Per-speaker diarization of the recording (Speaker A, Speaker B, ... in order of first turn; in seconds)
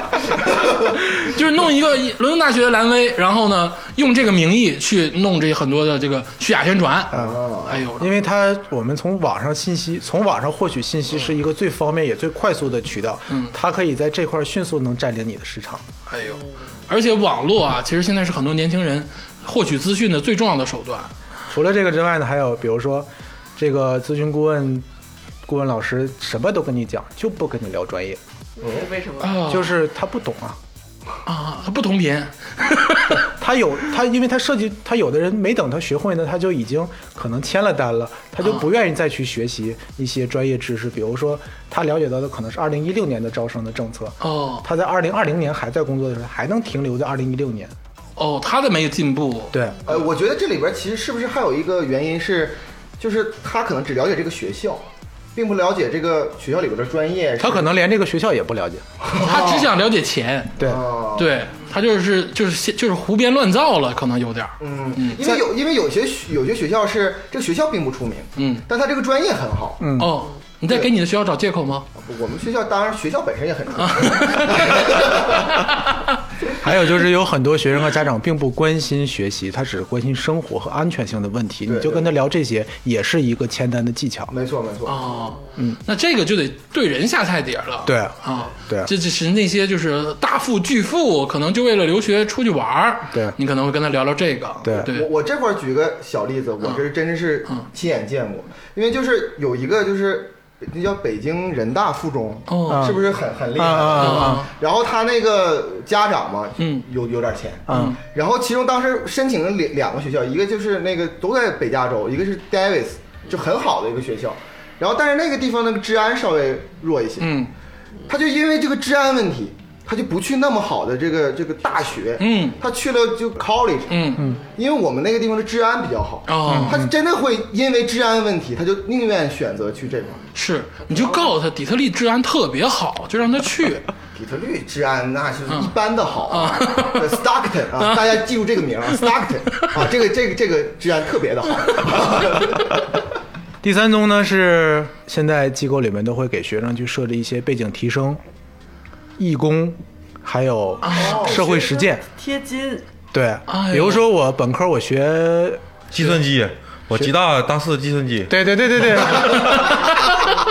Speaker A: 0.9-8.1, 13.3-13.6, 16.1-21.1, 29.2-29.8, 31.3-33.3, 38.4-38.7, 44.2-44.7, 48.2-50.0, 59.1-60.6, 61.2-65.2, 68.4-68.7, 70.0-71.9, 73.8-74.9, 84.9-95.1, 102.5-102.9, 104.0-104.5, 106.6-106.9, 107.7-108.0, 117.2-117.5, 122.2-122.6, 123.9-124.2, 126.3-126.8, 130.3-133.9, 136.3-137.2, 137.8-138.2, 150.8-151.2, 153.5-154.1, 159.2-159.7
Speaker B: 7.1-7.4, 8.0-15.8, 21.5-24.9, 25.5-28.2, 29.4-30.6, 33.2-47.7, 49.5-49.8, 57.4-58.8, 60.6-60.8, 69.8-70.2, 76.6-84.3, 87.8-88.2, 93.1-93.4, 94.6-94.9, 102.7-104.5, 107.7-108.0, 126.5-126.9, 143.6-148.2, 149.2-152.0, 153.1-155.7, 158.3-159.7
Speaker C: 7.1-7.8, 28.6-28.9, 49.9-57.7, 59.0-59.7, 60.6-61.4, 64.6-69.9, 72.0-75.6, 81.7-82.1, 84.3-85.3, 94.7-117.3, 118.1-130.3, 134.2-142.8, 151.0-151.4
Speaker D: 28.6-29.4, 151.0-152.9
Speaker E: 155.9-158.3, 158.9-159.4